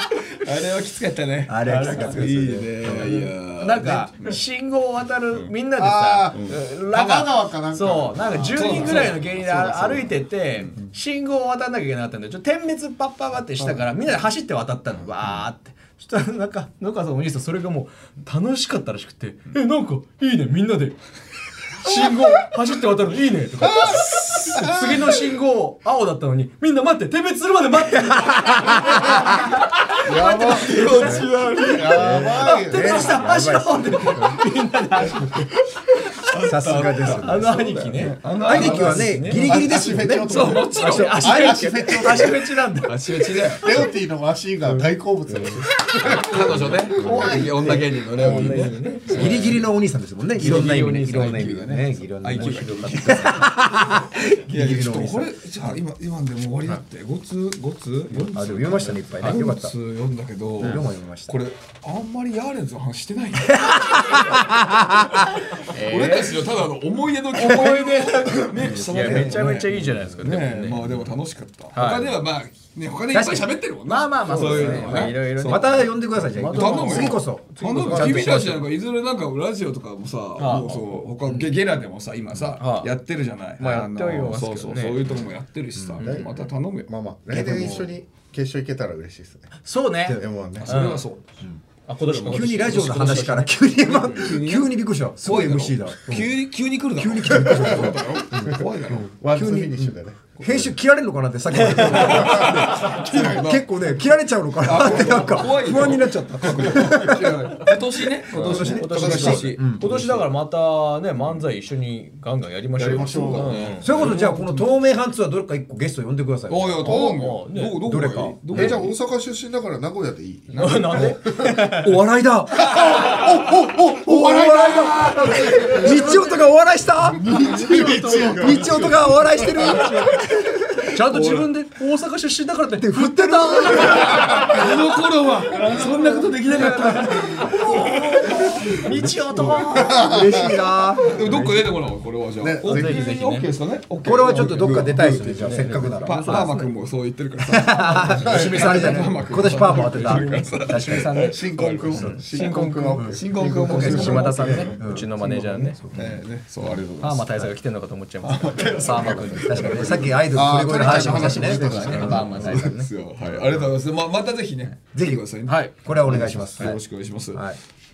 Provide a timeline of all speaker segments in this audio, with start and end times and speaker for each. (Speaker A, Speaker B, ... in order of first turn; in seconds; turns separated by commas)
Speaker A: 0.3-4.3, Speaker B: 1.5-3.1, Speaker C: 1.6-2.2, Speaker C: 2.9-21.0, Speaker D: 5.8-9.6, Speaker A: 8.5-10.9, Speaker C: 21.7-29.4, Speaker D: 23.7-25.2, Speaker A: 23.9-24.6, Speaker B: 28.4-29.2, Speaker C: 29.9-35.5, Speaker D: 30.0-33.3, Speaker A: 30.1-32.2, Speaker B: 32.0-34.4, Speaker A: 36.2-41.5, Speaker B: 36.3-37.6, Speaker C: 37.2-39.5, Speaker B: 38.4-42.5, Speaker D: 39.3-42.6, Speaker C: 40.8-42.9, Speaker A: 42.9-43.7, Speaker D: 43.6-47.5, Speaker B: 45.3-45.6, Speaker A: 46.0-49.7, Speaker B: 46.3-47.5, Speaker C: 47.0-49.5, Speaker B: 48.2-55.3, Speaker D: 48.2-48.6, Speaker C: 50.4-51.5, Speaker A: 50.4-64.4, Speaker C: 52.3-53.5, Speaker B: 58.1-59.7, Speaker B: 60.6-61.4, Speaker B: 63.5-65.2, Speaker A: 65.2-75.8, Speaker C: 65.7-66.5, Speaker C: 67.4-70.8, Speaker B: 68.5-70.1, Speaker C: 71.7-72.1, Speaker B: 73.1-73.5, Speaker C: 73.9-78.4, Speaker B: 74.3-78.6, Speaker A: 76.4-86.9, Speaker D: 78.0-78.3, Speaker C: 80.4-81.0, Speaker B: 81.2-81.5, Speaker C: 82.6-82.9, Speaker C: 83.6-85.0, Speaker B: 85.8-86.0, Speaker D: 86.0-86.3, Speaker D: 86.9-89.5, Speaker B: 87.3-87.9, Speaker C: 89.6-91.0, Speaker D: 90.1-90.7, Speaker A: 90.6-91.2, Speaker B: 91.4-107.8, Speaker C: 91.8-94.3, Speaker A: 92.1-99.1, Speaker D: 97.5-98.5, Speaker D: 99.1-100.2, Speaker A: 100.4-100.7, Speaker A: 101.6-103.7, Speaker D: 102.0-103.2, Speaker A: 104.6-110.2, Speaker D: 107.2-107.7, Speaker B: 108.3-109.9, Speaker D: 108.3-109.3, Speaker C: 108.7-113.9, Speaker D: 112.8-113.6, Speaker A: 112.8-114.7, Speaker B: 113.8-117.0, Speaker A: 116.5-119.0, Speaker D: 116.8-117.2, Speaker C: 116.8-117.8, Speaker B: 117.8-118.8, Speaker D: 118.5-121.6, Speaker A: 120.5-121.2, Speaker C: 120.5-121.9, Speaker B: 121.7-130.9, Speaker A: 122.6-123.2, Speaker D: 122.6-126.1, Speaker A: 124.7-126.2, Speaker C: 125.8-126.2, Speaker D: 127.2-129.5, Speaker C: 127.3-128.9, Speaker A: 127.7-128.8, Speaker C: 130.9-134.8, Speaker A: 131.1-131.5, Speaker B: 132.8-134.5, Speaker A: 133.8-140.1, Speaker C: 135.6-136.0, Speaker B: 136.6-137.5, Speaker C: 136.6-140.1, Speaker D: 139.8-140.4, Speaker B: 139.8-141.7, Speaker A: 141.1-154.9, Speaker D: 142.4-143.0, Speaker C: 142.6-143.5, Speaker B: 144.0-146.6, Speaker C: 145.5-146.7, Speaker B: 147.5-151.1, Speaker C: 148.2-155.8, Speaker D: 148.3-148.8, Speaker D: 151.1-154.8, Speaker B: 153.0-156.2, Speaker A: 155.9-157.5, Speaker C: 157.0-162.9, Speaker A: 158.2-160.2, Speaker D: 158.9-159.3, Speaker B: 159.1-162.4, Speaker D: 160.3-162.5, Speaker A: 161.8-167.5, Speaker B: 164.9-167.6, Speaker C: 165.5-165.7